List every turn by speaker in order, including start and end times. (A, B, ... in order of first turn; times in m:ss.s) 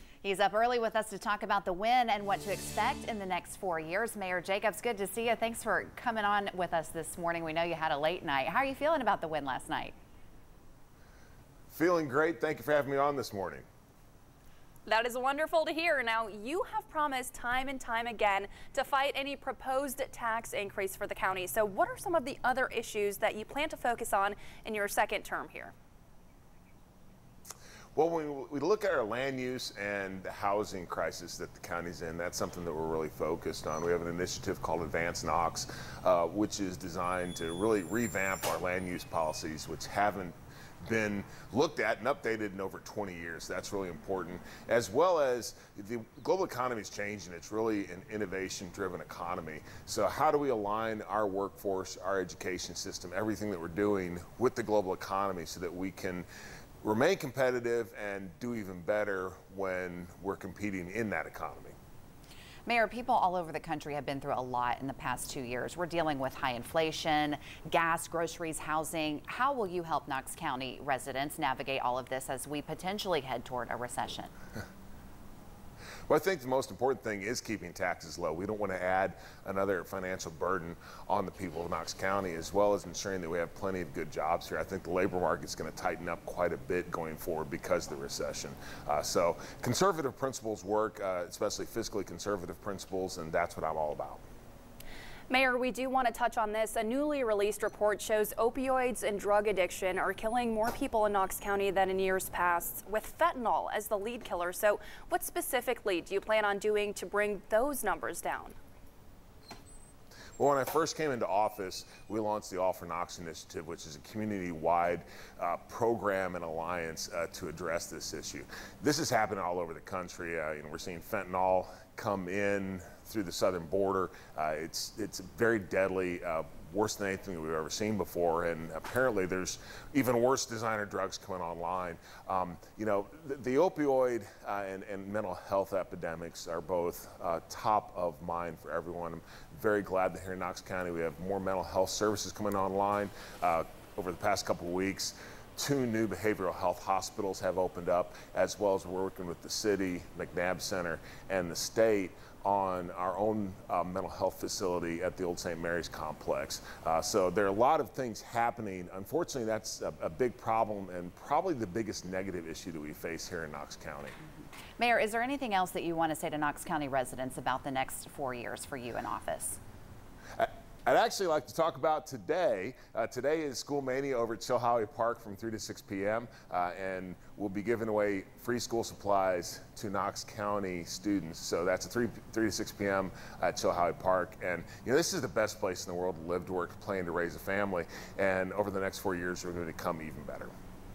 0:00.2-0:09.9 A
0:11.7-0:13.6 B
0:14.8-0:25.7 C
0:28.0-0:40.3 B
0:40.8-0:56.2 B
0:56.8-1:01.8 B
1:02.6-1:14.3 A
1:16.1-1:34.2 B
1:35.3-1:48.6 C
1:50.4-2:44.2 B
2:44.8-2:49.6 A
2:50.3-3:10.5 B